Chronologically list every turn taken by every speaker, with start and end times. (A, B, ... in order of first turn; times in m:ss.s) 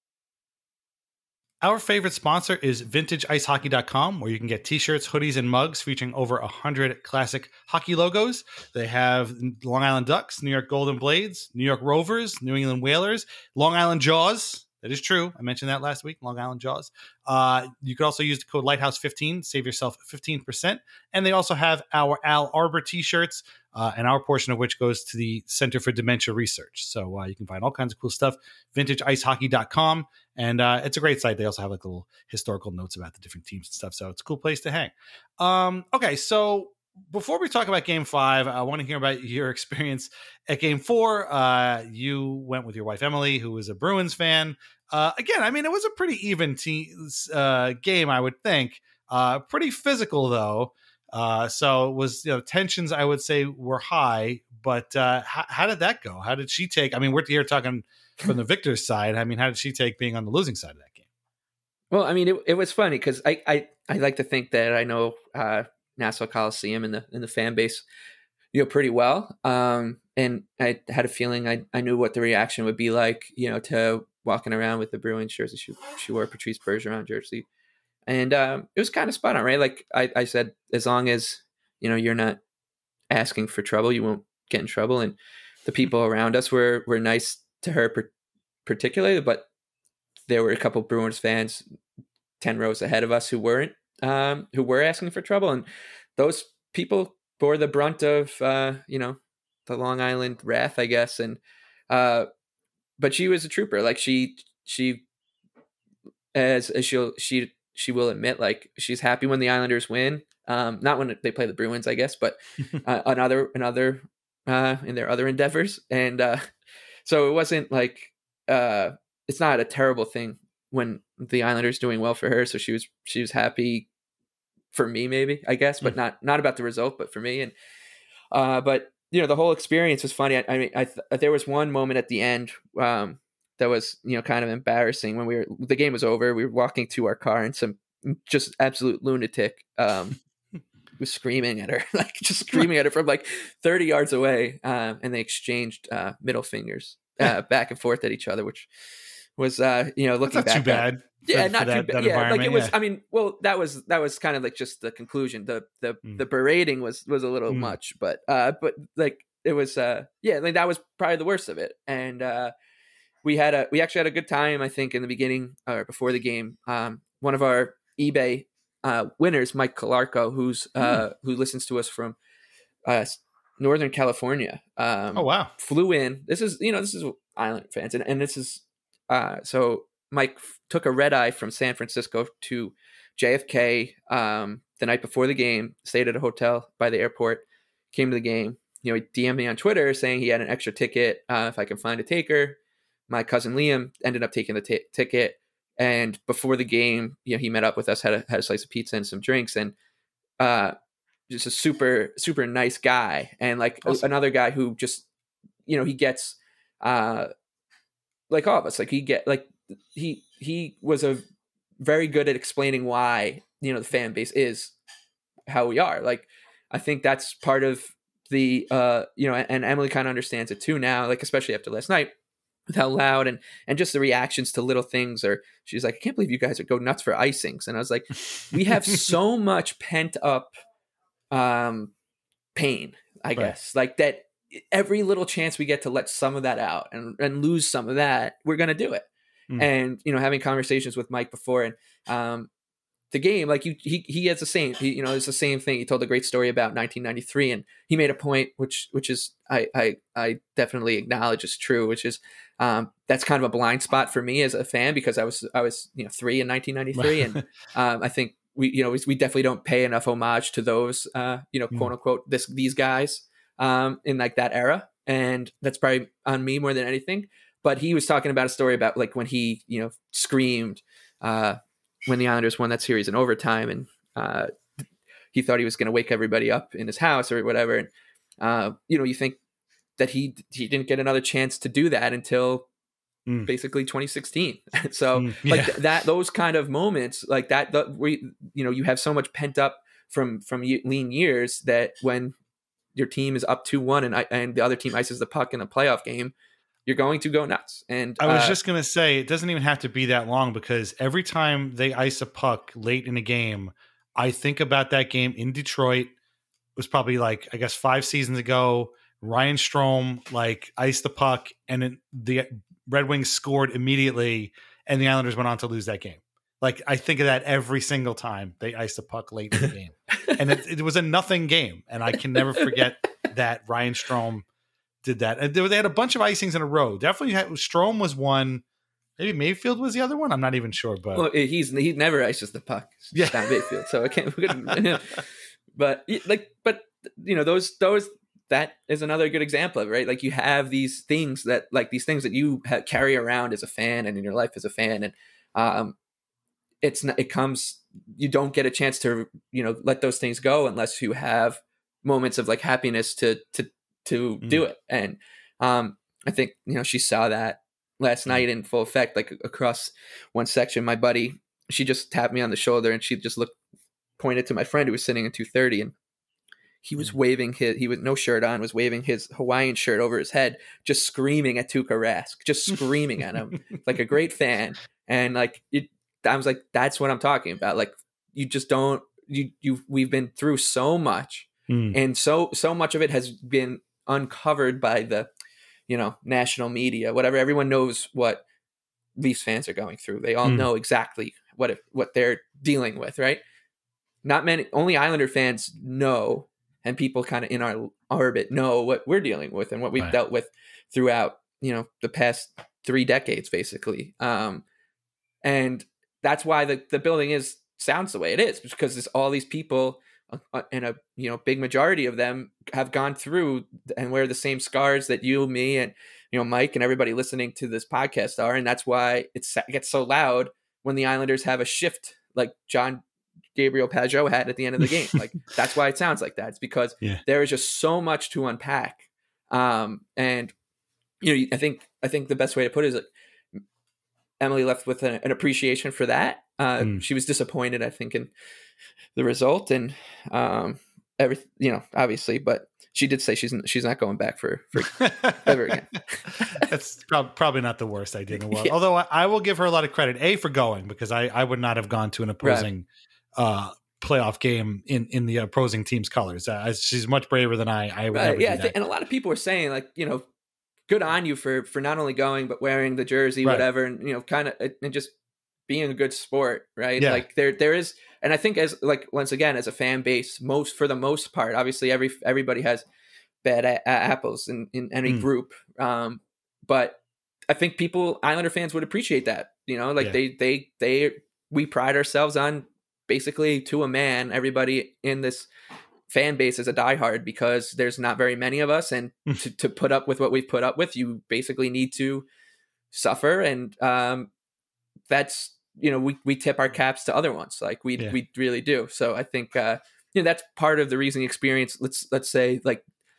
0:01.6-1:01.0 A
1:01.9-1:07.8 B
1:08.5-1:17.5 B
1:18.1-1:22.4 B
1:23.1-1:28.1 B
1:28.7-1:29.5 B
1:30.3-1:31.6 B
1:32.4-1:35.7 B
1:36.2-1:41.4 B
1:41.9-1:42.3 B
1:43.0-1:45.0 B
1:46.3-1:56.5 B
1:57.0-2:03.9 B
2:04.7-2:07.5 B
2:08.3-2:20.2 B
2:21.0-2:28.7 B
2:29.4-2:42.5 B
2:30.2-2:32.7 A
2:37.5-2:37.7 A
2:43.2-2:52.2 B
2:52.9-3:12.6 B
2:55.2-2:55.5 A
3:13.1-3:19.7 B
3:20.4-3:20.7 B
3:21.3-3:25.0 B
3:25.7-3:27.3 B
3:28.3-3:31.2 B
3:31.8-3:34.8 B
3:35.5-3:42.1 B
3:42.7-3:50.5 B
3:48.7-3:49.1 A
3:51.3-3:51.9 B
3:52.6-3:59.1 B
3:59.6-4:02.5 B
4:03.1-4:34.5 B
4:17.0-4:17.4 A
4:35.3-4:39.4 B
4:40.0-4:42.7 B
4:43.5-4:52.3 B
4:45.2-4:45.8 A
4:53.0-4:56.3 B
4:56.9-4:58.6 B
4:58.2-5:06.1 A
5:06.8-5:24.4 A
5:25.0-5:28.6 A
5:29.2-5:31.3 A
5:31.2-5:35.2 B
5:33.1-5:33.8 A
5:35.8-5:46.0 B
5:46.8-6:03.6 B
6:04.2-6:05.9 B
6:06.8-6:25.3 B
6:21.7-6:22.0 A
6:25.9-6:28.4 B
6:29.2-6:33.4 B
6:34.2-6:44.6 B
6:45.4-7:03.0 B
7:03.6-7:10.5 B
7:11.2-7:13.1 B
7:14.4-7:18.3 B
7:19.2-7:26.6 B
7:24.9-7:25.7 A
7:26.4-7:32.9 A
7:28.4-7:28.8 B
7:32.4-7:32.7 B
7:33.4-7:38.8 A
7:38.1-7:40.2 B
7:40.9-7:45.1 B
7:45.7-7:52.8 B
7:47.0-7:47.2 A
7:53.4-8:05.5 B
8:06.1-8:12.3 B
8:12.9-8:14.3 B
8:15.1-8:22.8 B